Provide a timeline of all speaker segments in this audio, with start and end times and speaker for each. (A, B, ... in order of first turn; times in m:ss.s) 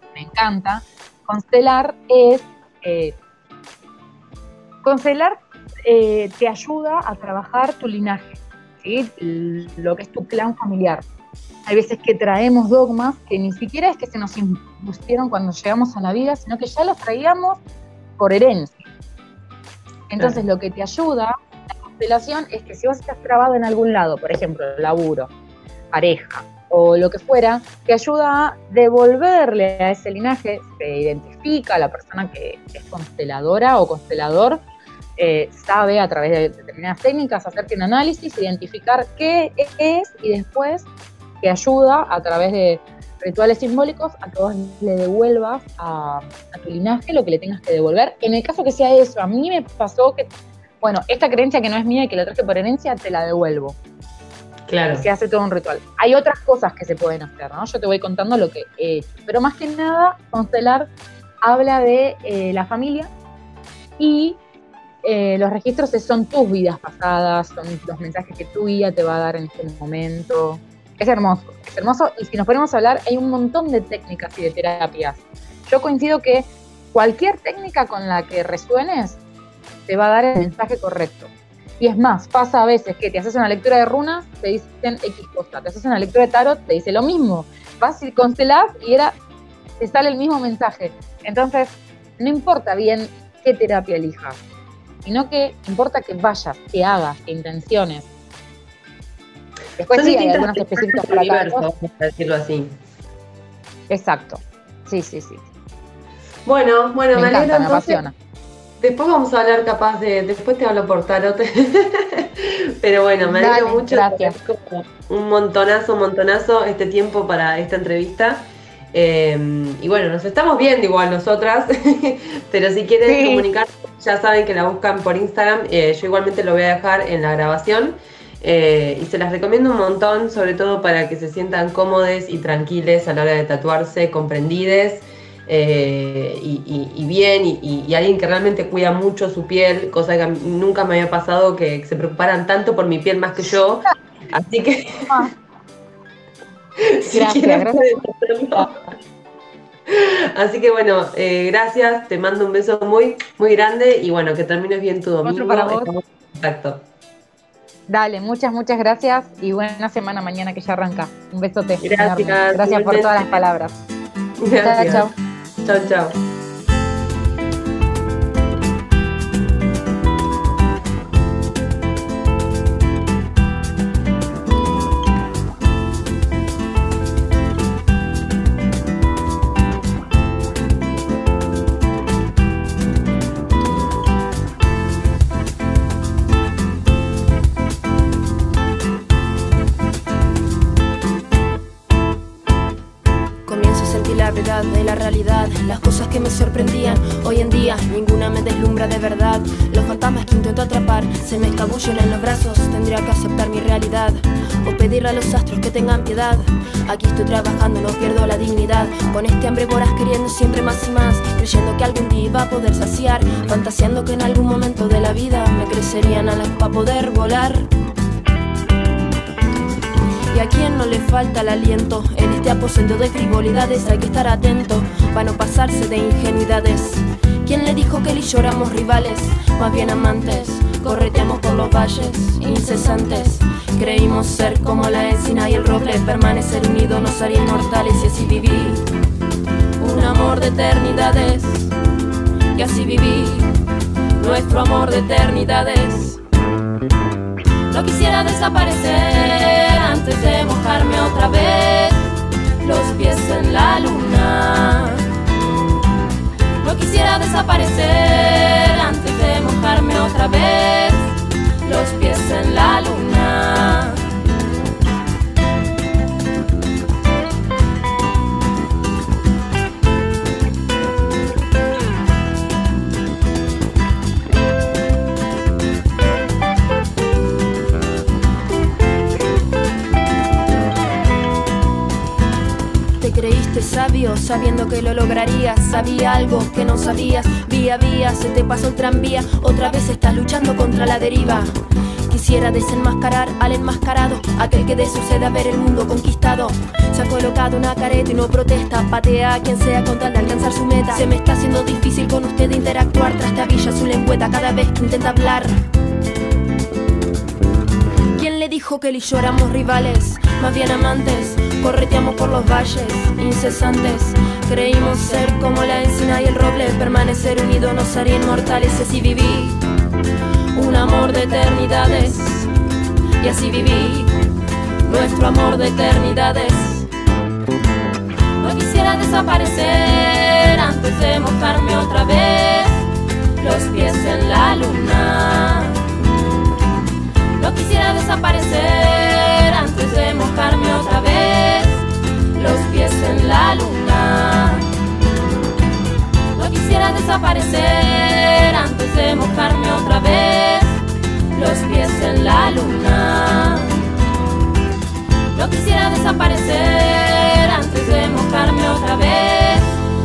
0:00.1-0:03.2 A
0:04.8-0:11.0 A
0:11.7-0:17.6 A
0:18.2-0:18.9 A
0:20.1-0:25.3 A
0:25.9-0:34.6 A
0:35.2-0:40.9 A
0:41.4-0:50.3 A
0:50.8-0:53.8 A
0:54.7-0:55.1 B
0:54.9-1:00.9 A
1:01.4-1:03.1 A
1:04.0-1:04.4 A
1:05.0-1:19.2 A
1:19.9-1:29.2 A
1:29.8-1:34.4 A
1:35.0-1:38.1 A
1:39.8-1:41.7 A
1:39.9-1:42.8 B
1:43.9-1:45.4 A
1:46.4-1:48.0 B
1:47.1-1:48.1 A
1:48.8-2:25.3 B
1:53.2-1:54.4 A
2:03.1-2:03.4 A
2:25.1-2:25.3 A
2:26.8-2:28.8 B
2:27.1-2:27.9 A
2:29.9-2:36.8 B
2:35.2-2:35.9 A
2:37.9-2:43.8 A
2:41.8-2:43.2 B
2:44.4-2:45.1 B
2:44.6-2:45.1 A
2:45.6-2:46.2 B
3:13.4-3:37.7 C
3:40.3-3:58.8 C
3:59.8-4:01.7 C
4:02.5-4:03.5 C
4:04.2-4:06.2 C
4:07.7-4:15.1 C
4:16.6-4:24.0 C
4:43.0-4:51.5 C
4:52.1-5:05.6 C
5:08.1-5:19.6 C
5:20.5-5:22.5 C
5:23.2-5:24.2 C
5:24.8-5:26.9 C
5:28.4-5:32.8 C
5:33.4-5:35.8 C
5:37.4-5:44.7 C
5:46.3-5:50.8 C
5:51.3-5:53.9 C
5:55.3-5:59.8 C